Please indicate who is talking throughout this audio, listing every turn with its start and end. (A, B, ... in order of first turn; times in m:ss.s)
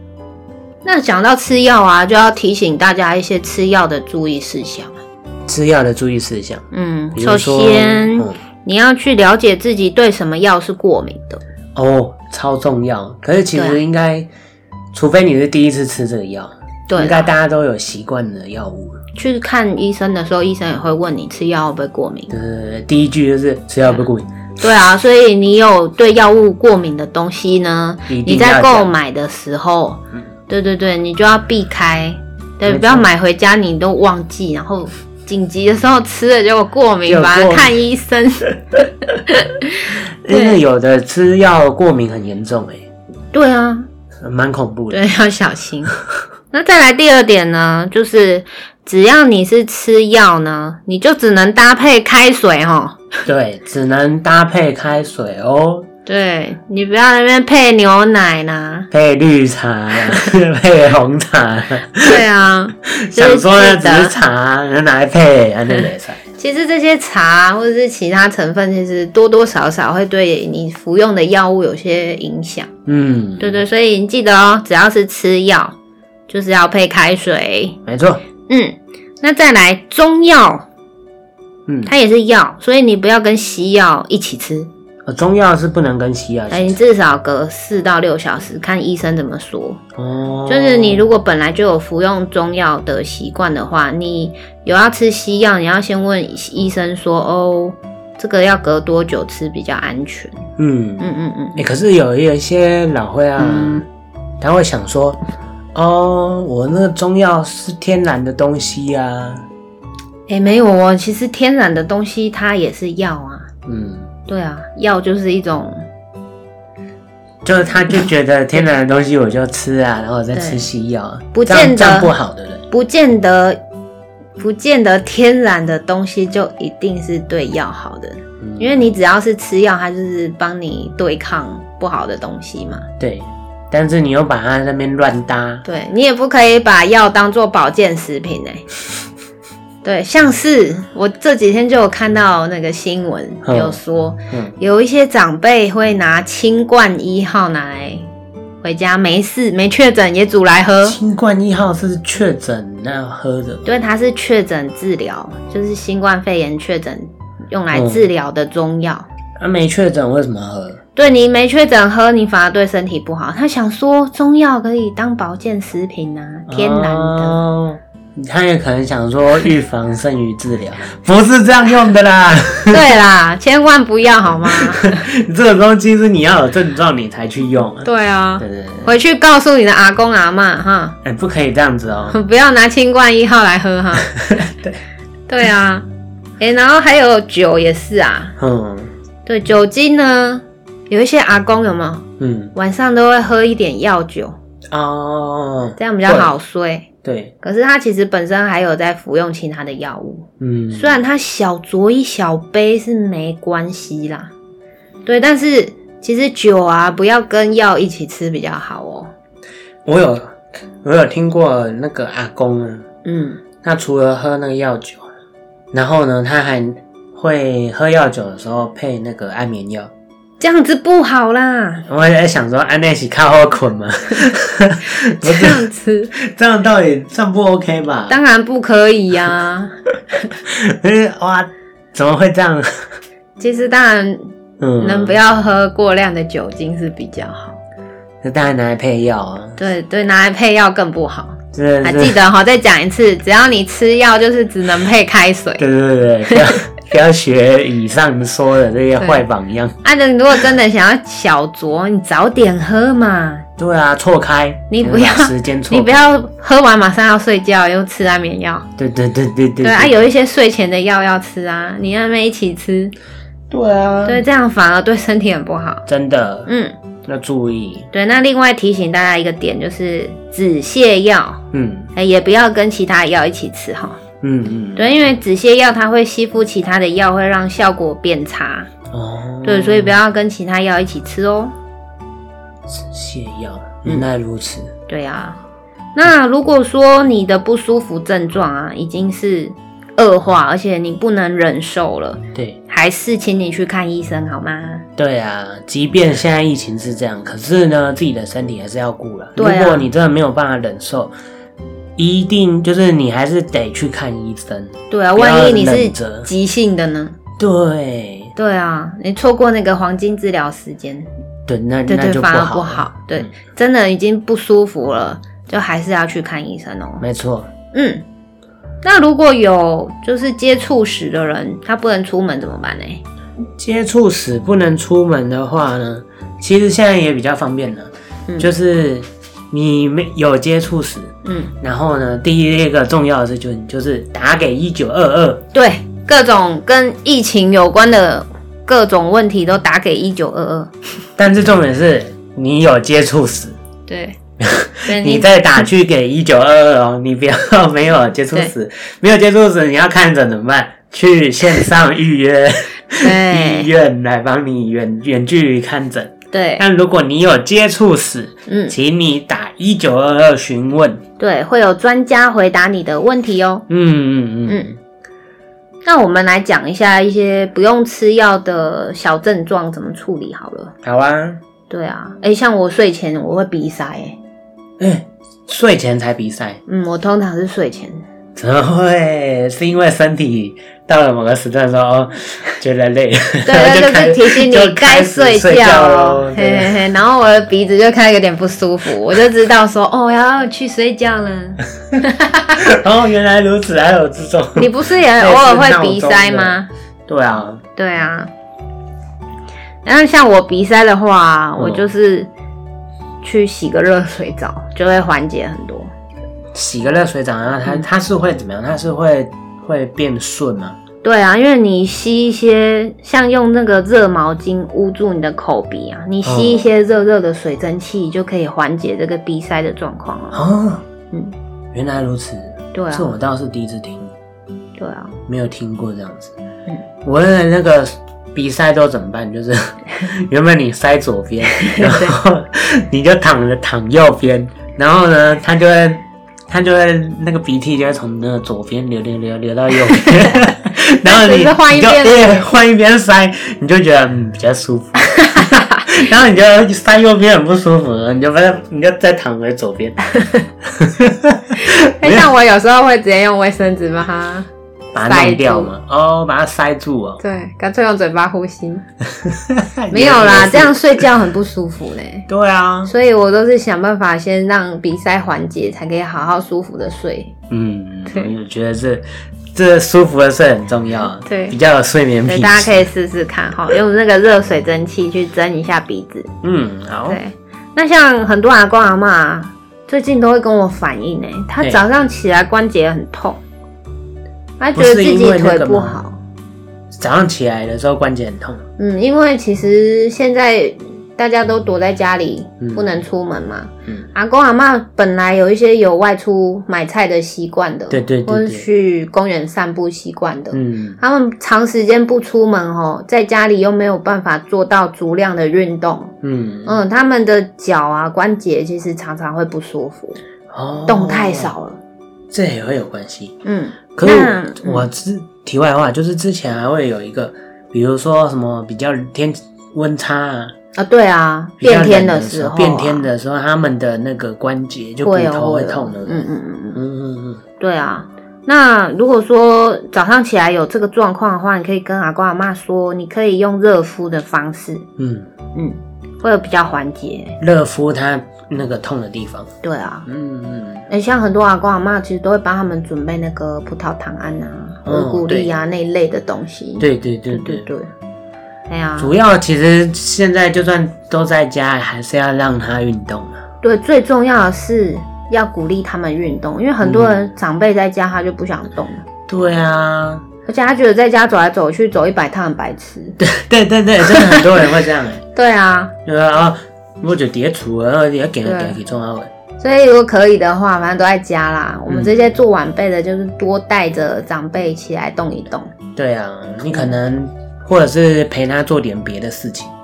0:00.8-0:05.0 A
0:05.4-0:08.4 B
0:06.7-0:11.4 A
0:11.7-0:14.3 B
0:13.5-0:13.8 A
0:14.9-0:19.0 B
0:16.9-0:17.3 A
0:19.2-0:22.3 A
0:22.3-0:24.3 B
0:24.6-0:40.6 A
0:28.1-0:28.9 B
0:32.6-0:33.1 B
0:37.0-0:37.8 B
0:40.2-0:42.9 B
0:43.3-0:43.9 A
0:44.2-0:45.0 B
0:44.9-0:46.0 A
0:46.5-0:53.2 A
0:53.2-0:55.9 B
0:56.0-0:58.9 A
0:58.9-1:02.2 B
1:02.0-1:04.2 A
1:02.9-1:06.2 B
1:06.4-1:12.7 A
1:12.8-1:13.6 B
1:13.4-1:15.7 A
1:16.3-1:17.8 A
1:17.8-1:18.2 B
1:18.5-1:20.6 A
1:21.7-1:21.9 B
1:21.8-1:24.7 A
1:25.0-1:26.8 B
1:26.5-1:29.8 A
1:30.0-1:31.0 B
1:30.5-1:40.4 A
1:40.6-1:43.8 B
1:41.0-1:41.6 A
1:43.4-1:43.8 A
1:44.4-1:45.2 B
1:45.7-1:49.4 B
1:50.3-1:53.5 A
1:53.6-1:54.1 B
1:54.3-1:55.8 A
1:57.4-2:02.6 B
2:00.3-2:00.6 A
2:01.3-2:02.1 A
2:02.7-2:03.6 A
2:04.4-2:12.9 A
2:08.4-2:08.9 B
2:13.0-2:15.6 B
2:15.6-2:18.6 A
2:19.8-2:28.0 A
2:23.4-2:23.8 B
2:28.6-2:31.0 A
2:30.8-2:33.7 B
2:33.6-2:39.1 A
2:37.7-2:38.1 B
2:39.4-2:40.8 B
2:41.0-2:47.4 A
2:46.5-2:52.9 B
2:52.7-2:55.0 A
2:54.4-2:58.9 B
2:57.8-3:01.0 A
3:01.0-3:02.2 B
3:02.1-3:04.1 A
3:04.1-3:04.8 B
3:05.3-3:05.8 A
3:06.4-3:08.4 A
3:08.4-3:08.9 B
3:09.2-3:14.4 A
3:12.2-3:12.5 B
3:14.7-3:16.3 B
3:15.8-3:16.9 A
3:17.0-3:17.3 B
3:17.4-3:24.3 A
3:20.4-3:21.0 B
3:25.0-3:29.1 A
3:29.8-3:32.8 B
3:33.0-3:33.4 A
3:33.6-3:35.1 B
3:35.7-3:39.9 B
3:40.4-3:41.8 A
3:41.8-3:48.2 B
3:44.9-3:46.1 A
3:48.1-3:50.3 A
3:50.3-3:52.9 B
3:53.4-3:57.6 A
3:54.6-3:55.2 B
3:58.2-3:59.6 B
3:59.6-4:05.6 A
4:01.5-4:02.2 B
4:05.6-4:09.8 B
4:06.2-4:06.6 A
4:09.0-4:09.2 A
4:09.8-4:13.4 A
4:13.6-4:16.2 B
4:14.7-4:18.6 A
4:18.8-4:20.1 B
4:19.6-4:22.9 A
4:23.5-4:24.2 B
4:24.0-4:25.8 A
4:25.8-4:26.5 B
4:26.4-4:26.7 A
4:27.0-4:27.9 B
4:27.9-4:31.4 A
4:31.5-4:31.9 B
4:31.9-4:34.0 A
4:34.2-4:35.1 B
4:34.8-4:38.7 A
4:38.9-4:40.0 B
4:39.4-4:41.5 A
4:42.7-4:44.7 B
4:44.9-4:45.4 A
4:45.9-4:54.8 A
4:55.0-5:01.1 B
4:59.4-4:59.9 A
5:02.0-5:06.3 B
5:04.9-5:07.2 A
5:07.4-5:08.3 B
5:08.4-5:11.1 A
5:11.5-5:13.3 B
5:11.9-5:17.0 A
5:17.0-5:17.5 B
5:17.7-5:18.0 A
5:18.8-5:23.0 A
5:23.6-5:35.4 B
5:31.2-5:31.5 A
5:35.5-5:40.7 A
5:41.2-5:43.6 B
5:43.9-5:44.2 A
5:44.4-6:01.0 B
5:44.8-5:45.3 A
5:53.0-5:53.7 A
5:56.3-5:56.6 A
5:58.5-5:58.7 A
6:01.2-6:03.6 A
6:03.7-6:04.7 B
6:04.5-6:04.7 A
6:05.8-6:10.7 A
6:10.8-6:11.4 B
6:11.7-6:14.2 A
6:14.8-6:16.6 B
6:16.7-6:18.0 A
6:18.4-6:26.8 B
6:23.4-6:32.6 A
6:32.6-6:37.6 B
6:34.6-6:36.7 A
6:37.8-6:38.3 A
6:39.8-6:42.3 A
6:41.6-6:41.8 B
6:43.2-6:45.9 A
6:46.5-6:50.8 B
6:51.0-7:00.4 A
6:56.2-6:56.6 B
7:00.3-7:00.8 B
7:01.7-7:04.1 B
7:02.7-7:03.1 A
7:04.8-7:05.2 A
7:05.3-7:06.3 B
7:07.0-7:30.1 B
7:11.5-7:12.2 A
7:20.0-7:20.5 A
7:21.0-7:22.5 A
7:25.0-7:25.9 A
7:30.1-7:30.5 A
7:30.6-7:32.3 B
7:31.5-7:34.5 A
7:34.9-7:37.2 B
7:35.0-7:35.7 A
7:37.2-7:38.8 A
7:39.1-7:41.0 B
7:39.9-7:42.3 A
7:42.3-7:42.9 B
7:42.8-7:47.3 A
7:47.5-7:52.8 B
7:51.2-7:51.6 A
7:52.2-7:56.3 A
7:56.4-7:57.2 B
7:57.1-8:03.4 A
8:04.6-8:06.2 A
8:04.7-8:06.0 B
8:06.9-8:08.6 B
8:08.8-8:26.1 A
8:12.6-8:13.0 B
8:17.9-8:18.6 B
8:20.5-8:21.0 B
8:26.2-8:26.8 B
8:26.6-8:30.2 A
8:30.5-8:31.5 B
8:30.9-8:31.8 A
8:32.3-8:33.4 B
8:33.4-8:34.9 A
8:34.0-8:40.5 B
8:40.7-8:43.1 A
8:41.6-8:47.4 B
8:45.0-8:46.8 A
8:47.6-8:54.8 A
8:55.0-8:55.3 B
8:55.5-8:57.4 A
8:57.4-8:59.5 B
8:59.6-9:00.0 A
9:00.0-9:00.8 B
9:00.9-9:07.9 A
9:04.8-9:05.6 B
9:06.8-9:07.7 B
9:08.7-9:09.1 A
9:09.0-9:13.4 B
9:13.6-9:19.0 A
9:16.8-9:17.2 B
9:19.3-9:20.2 B
9:20.4-9:23.2 A
9:23.2-9:25.2 B
9:24.0-9:24.7 A
9:25.3-9:25.9 A
9:26.0-9:29.3 B
9:28.4-9:28.8 A
9:29.6-9:35.7 A
9:31.9-9:32.3 B
9:36.0-9:39.7 B